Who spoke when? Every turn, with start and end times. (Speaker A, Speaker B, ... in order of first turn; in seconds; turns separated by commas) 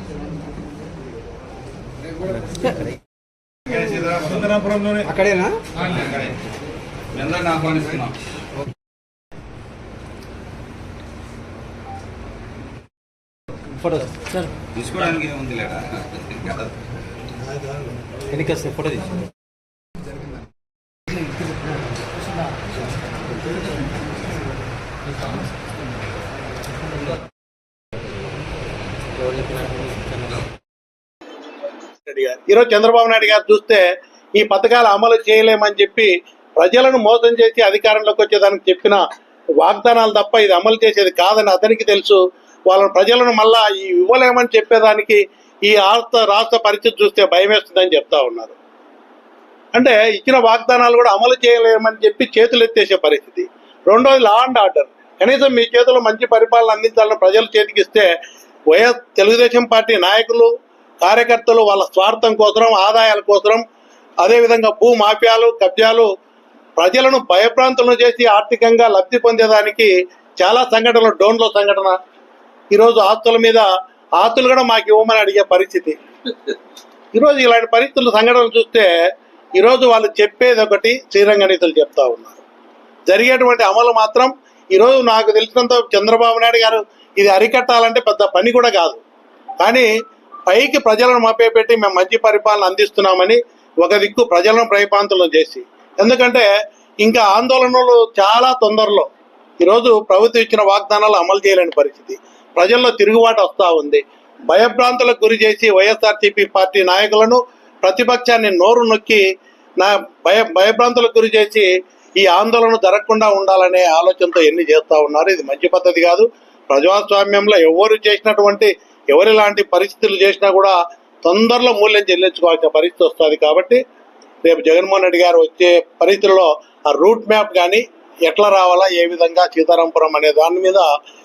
Speaker A: 3.7-4.9, Speaker B: 5.0-5.6, Speaker A: 5.8-6.4, Speaker A: 7.1-8.1, Speaker B: 13.8-14.5, Speaker A: 14.7-16.7, Speaker B: 18.3-19.2, Speaker B: 29.2-30.5, Speaker C: 32.0-33.9, Speaker C: 34.4-39.0, Speaker C: 39.6-48.5, Speaker C: 49.7-58.1, Speaker C: 58.7-63.6, Speaker C: 64.2-66.1, Speaker C: 66.8-72.0, Speaker C: 72.7-73.7, Speaker C: 74.2-76.0, Speaker C: 77.2-78.9, Speaker C: 79.6-82.4, Speaker C: 83.1-89.0, Speaker C: 89.6-89.9, Speaker C: 90.5-96.5, Speaker C: 97.0-99.1, Speaker C: 99.6-109.2, Speaker C: 109.8-123.8, Speaker C: 124.4-130.9